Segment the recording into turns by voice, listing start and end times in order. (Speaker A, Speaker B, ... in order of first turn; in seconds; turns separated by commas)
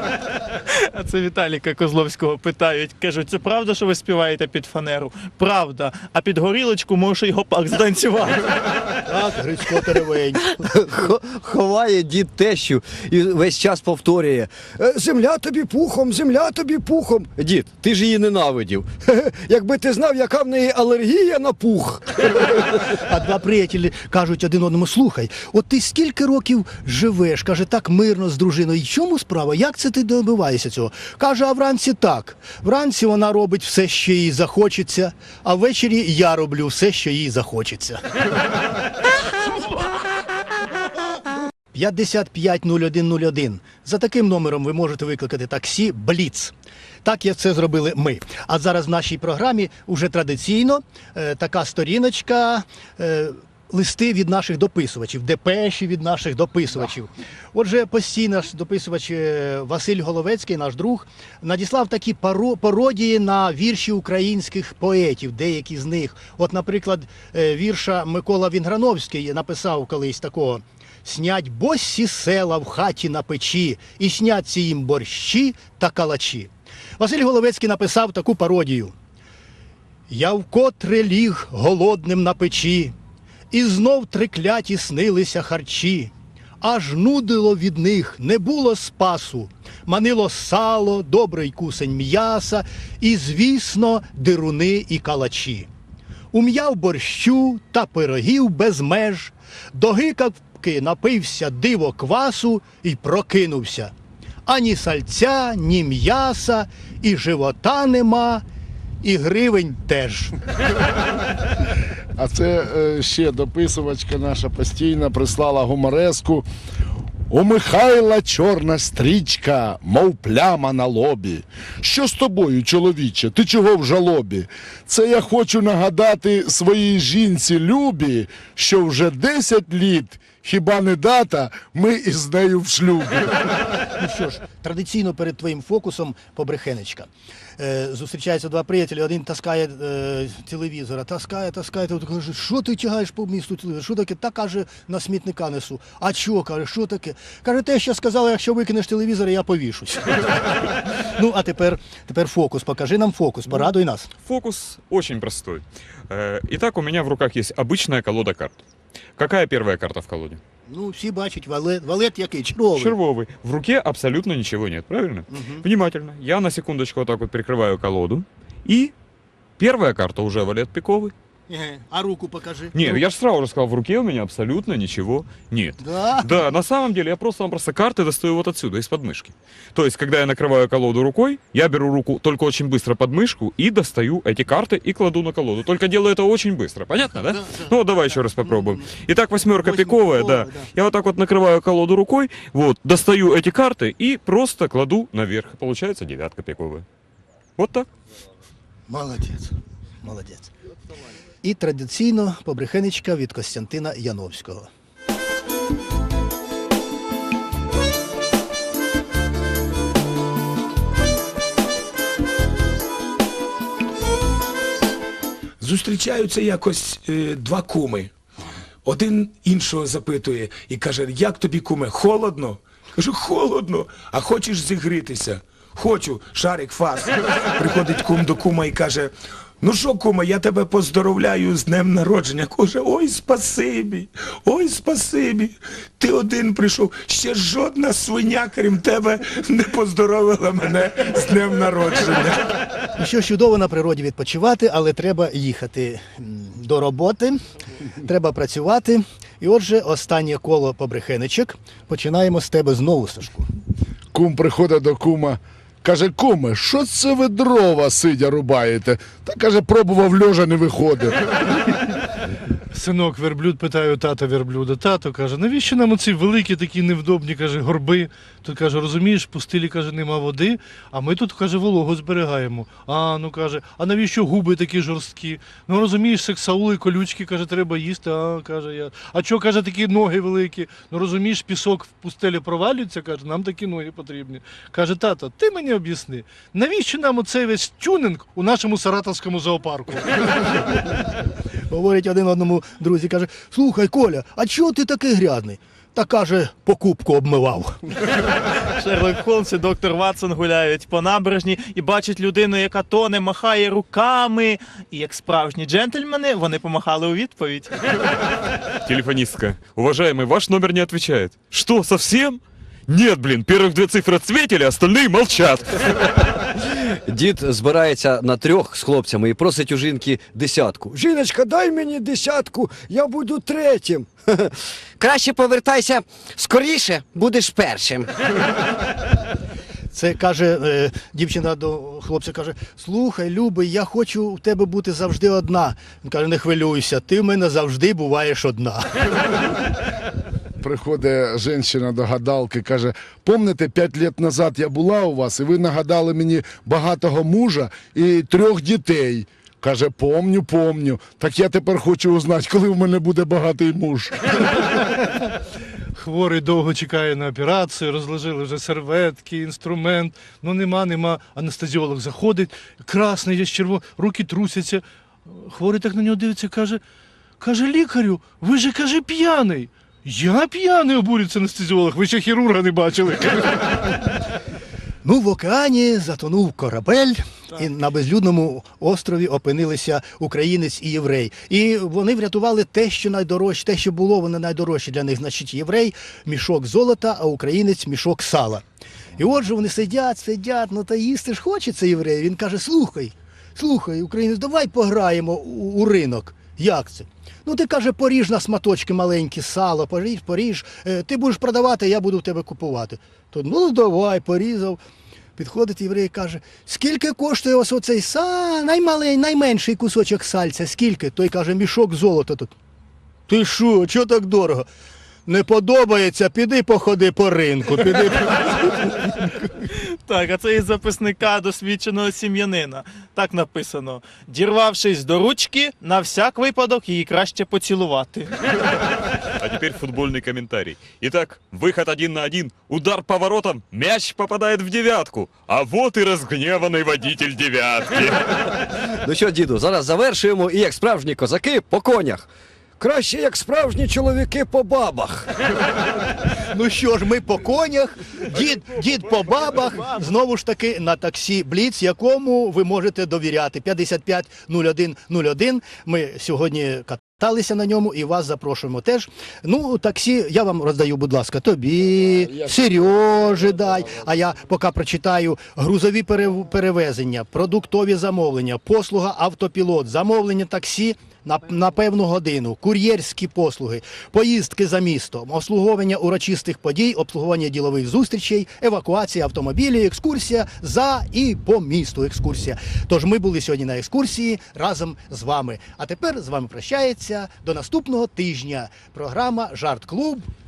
Speaker A: 0.7-8.6, Speaker B: 9.1-10.4, Speaker C: 10.5-14.5, Speaker D: 14.7-17.6, Speaker C: 17.5-18.9, Speaker D: 19.1-22.1, Speaker B: 22.9-38.0, Speaker B: 41.7-78.9, Speaker B: 80.1-82.9, Speaker B: 83.5-95.7, Speaker B: 96.3-103.9, Speaker B: 104.5-108.4, Speaker B: 109.0-110.3, Speaker E: 112.2-116.5, Speaker E: 117.3-133.6, Speaker B: 133.9-154.1, Speaker F: 154.2-158.6, Speaker F: 159.2-160.4, Speaker B: 160.7-162.9, Speaker F: 162.8-168.9, Speaker B: 165.3-165.6, Speaker F: 169.6-171.1, Speaker B: 171.5-173.1, Speaker F: 172.8-196.8, Speaker B: 175.8-176.3, Speaker B: 187.4-187.7, Speaker B: 188.4-188.8, Speaker B: 189.6-190.7, Speaker F: 197.6-197.9, Speaker B: 198.9-200.5, Speaker B: 201.4-204.7, Speaker G: 215.6-218.1, Speaker G: 218.8-242.6, Speaker B: 242.9-247.4, Speaker B: 248.0-253.5, Speaker E: 254.1-261.4, Speaker H: 262.7-290.3, Speaker B: 291.7-297.8, Speaker A: 298.6-307.8, Speaker F: 308.8-316.1, Speaker C: 316.6-320.9, Speaker D: 320.9-324.1, Speaker I: 325.0-328.1, Speaker B: 329.9-339.0, Speaker E: 340.6-354.3, Speaker H: 354.8-355.3, Speaker H: 356.0-366.8, Speaker H: 367.4-374.0, Speaker B: 375.0-388.6, Speaker B: 389.2-404.8, Speaker B: 405.4-412.5, Speaker B: 413.3-414.6, Speaker B: 415.3-419.5, Speaker A: 419.7-428.4, Speaker F: 429.3-438.5, Speaker C: 439.0-442.3, Speaker D: 442.8-445.3, Speaker B: 446.5-490.3, Speaker E: 462.0-463.8